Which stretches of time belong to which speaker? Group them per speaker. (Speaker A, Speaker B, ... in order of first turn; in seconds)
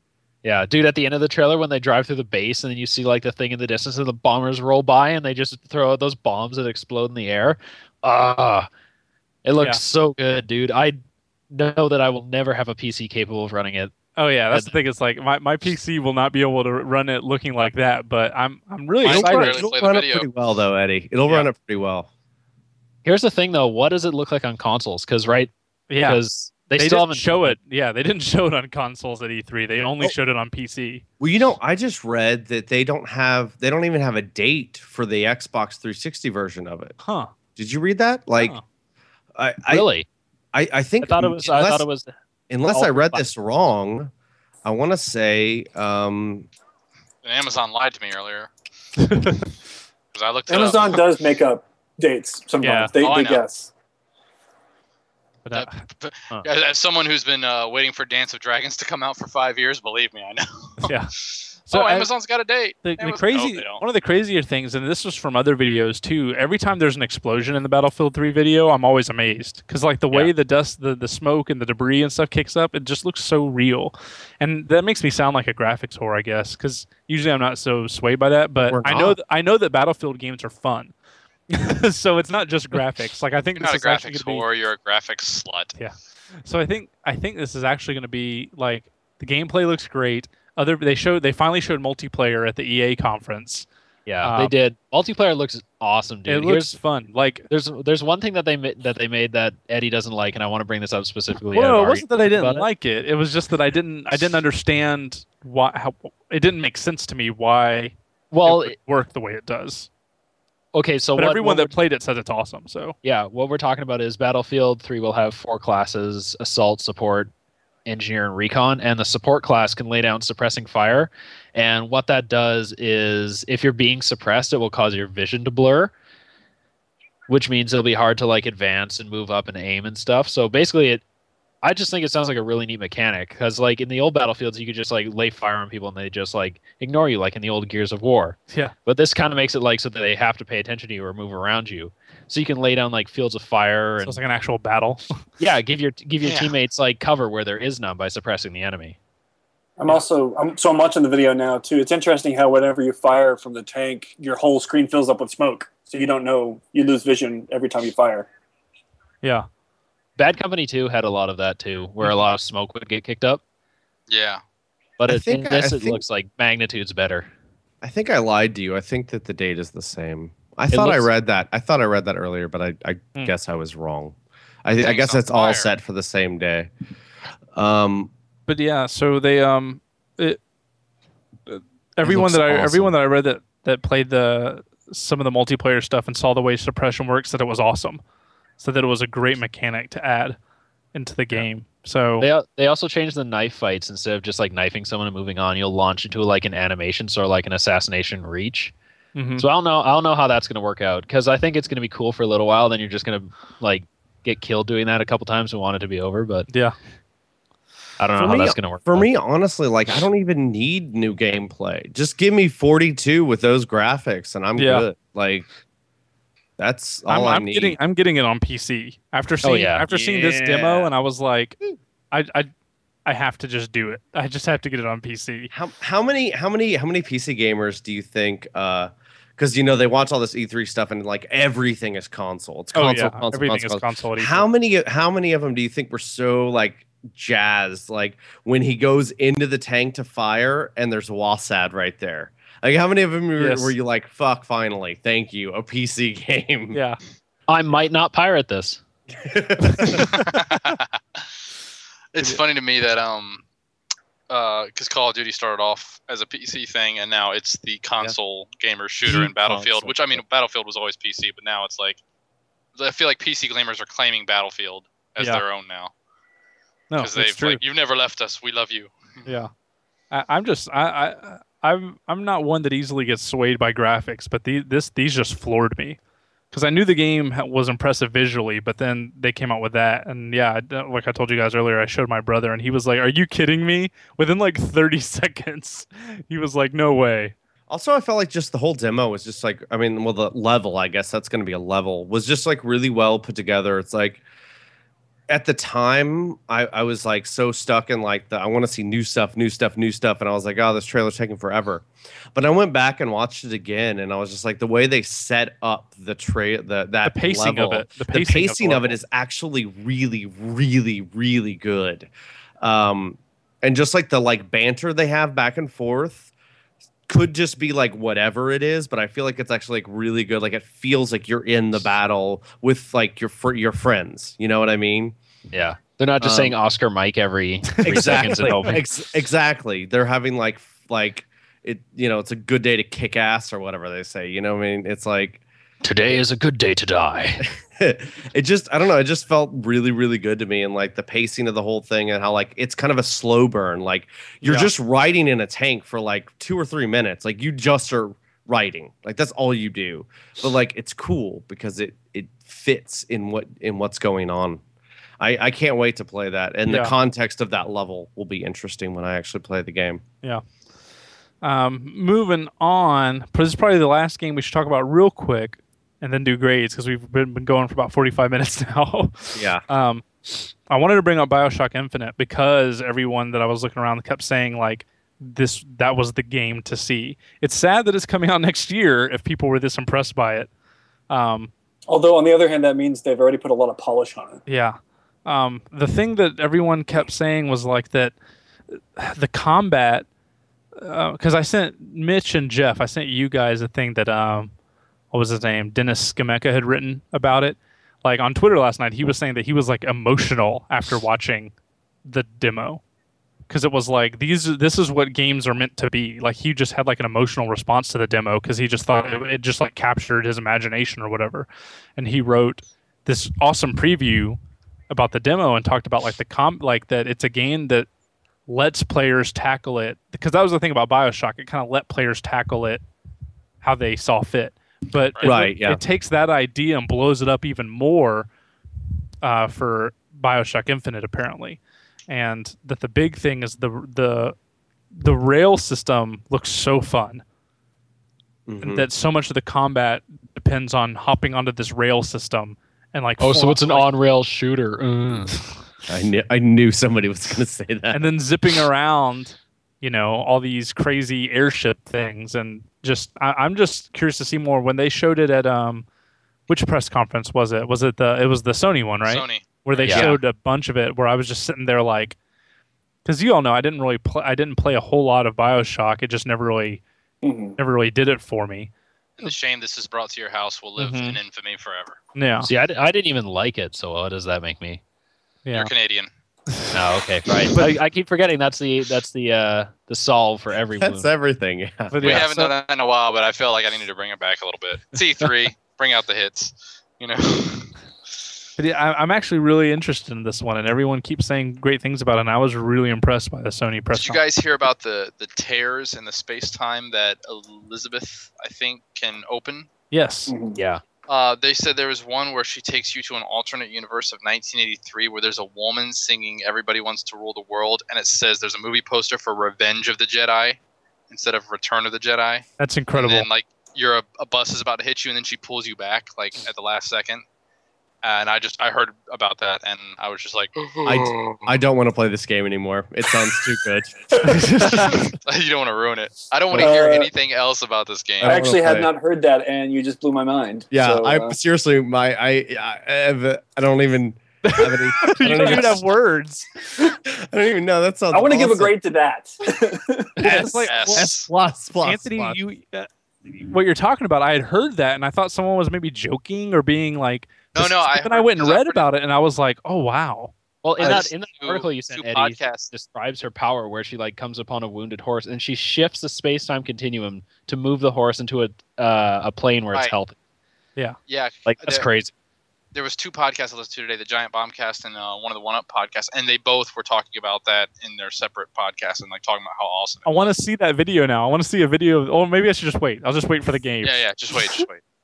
Speaker A: 0.4-8.7, 9.4-13.9, 23.0-27.6, 39.7-40.0, 41.0-42.1, 42.7-43.2, 94.0-96.8, 97.5-102.7, 108.3-108.8, 110.7-111.7, 113.0-117.3, 117.8-125.9, 127.3-131.0, 131.6-144.2, 145.4-148.9, 160.2-163.4, 165.0-167.3, 170.7-171.1, 192.2-198.7, 199.4-206.5, 208.0-209.1, 219.4-220.8, 247.5-248.8, 325.5-328.8, 335.8-337.4, 443.2-445.5, 459.8-460.1, 472.4-474.8, 476.7-481.1, 500.6-500.8, 550.6-560.2, 561.5-562.1
Speaker B: 14.2-19.6, 25.9-26.2, 26.7-31.0, 37.0-37.3, 49.0-49.5, 52.6-52.9, 55.4-55.8, 60.8-61.1, 61.7-62.1, 62.8-80.9, 81.5-84.4, 85.8-93.7, 94.2-94.5, 96.3-97.5, 101.5-109.9, 111.2-113.0, 144.0-145.0, 159.2-159.5, 178.5-180.4, 181.5-188.0, 188.6-190.4, 190.9-192.3, 199.1-199.5, 206.5-206.7, 214.6-214.9, 217.1-221.6, 222.1-222.5, 223.1-225.5, 232.7-234.5, 243.4-243.7, 246.7-247.0, 249.7-250.1, 266.9-267.6, 269.2-269.5, 270.1-276.0, 276.5-287.3, 307.0-309.0, 327.7-328.8, 344.4-344.7, 356.7-356.9, 361.4-380.5, 381.1-381.5, 384.4-388.1, 388.9-390.1, 390.8-394.5, 395.1-401.5, 402.0-402.8, 403.5-414.4, 414.9-417.9, 418.5-422.8, 423.6-428.3, 429.2-434.4, 434.9-437.2, 438.6-443.9, 447.9-455.9, 456.5-462.2, 463.0-466.8, 467.6-468.7, 470.8-471.2, 472.1-472.5, 475.4-475.7, 477.5-477.8, 481.9-482.5, 488.6-494.2, 499.9-500.3, 512.6-513.3, 524.2-525.1, 534.4-536.5, 540.2-541.2, 541.8-551.0, 570.0-574.0
Speaker C: 19.0-20.3, 47.2-48.5, 50.1-51.0, 53.0-53.4, 55.5-63.8, 83.6-85.7, 146.2-146.5, 164.1-164.4, 174.8-175.7, 250.1-251.2, 252.1-253.4, 254.3-262.0, 262.8-265.9, 267.0-269.2, 459.0-460.1, 469.2-472.0, 475.5-476.1, 482.0-487.7, 493.9-499.7, 501.1-510.6, 511.1-517.2, 518.0-521.4, 524.7-528.4, 540.7-541.3, 547.5-548.9, 550.8-552.7, 561.1-561.9, 562.7-570.3, 573.8-574.8
Speaker D: 19.0-22.1, 31.2-37.0, 37.5-38.6, 39.3-39.9, 40.5-41.9, 42.5-44.1, 44.6-46.5, 78.7-79.2, 165.1-166.0, 167.8-176.7, 177.5-178.1, 182.1-182.9, 208.2-215.5, 216.6-217.8, 225.5-246.8, 249.2-250.1, 259.1-260.2, 287.7-294.2, 295.3-312.1, 312.6-316.3, 317.1-325.1, 326.2-326.6, 327.8-335.4, 337.6-354.6, 355.2-360.0, 369.3-369.6, 425.2-425.8, 438.5-438.9, 445.9-448.1, 480.8-482.2, 520.8-524.9, 528.2-528.9, 530.7-535.8, 536.8-538.7, 540.2-542.4
Speaker E: 50.5-53.7, 149.8-158.3, 381.9-384.4, 467.2-467.6, 500.3-500.6, 526.5-527.1, 528.2-531.4, 535.3-535.7, 538.1-540.4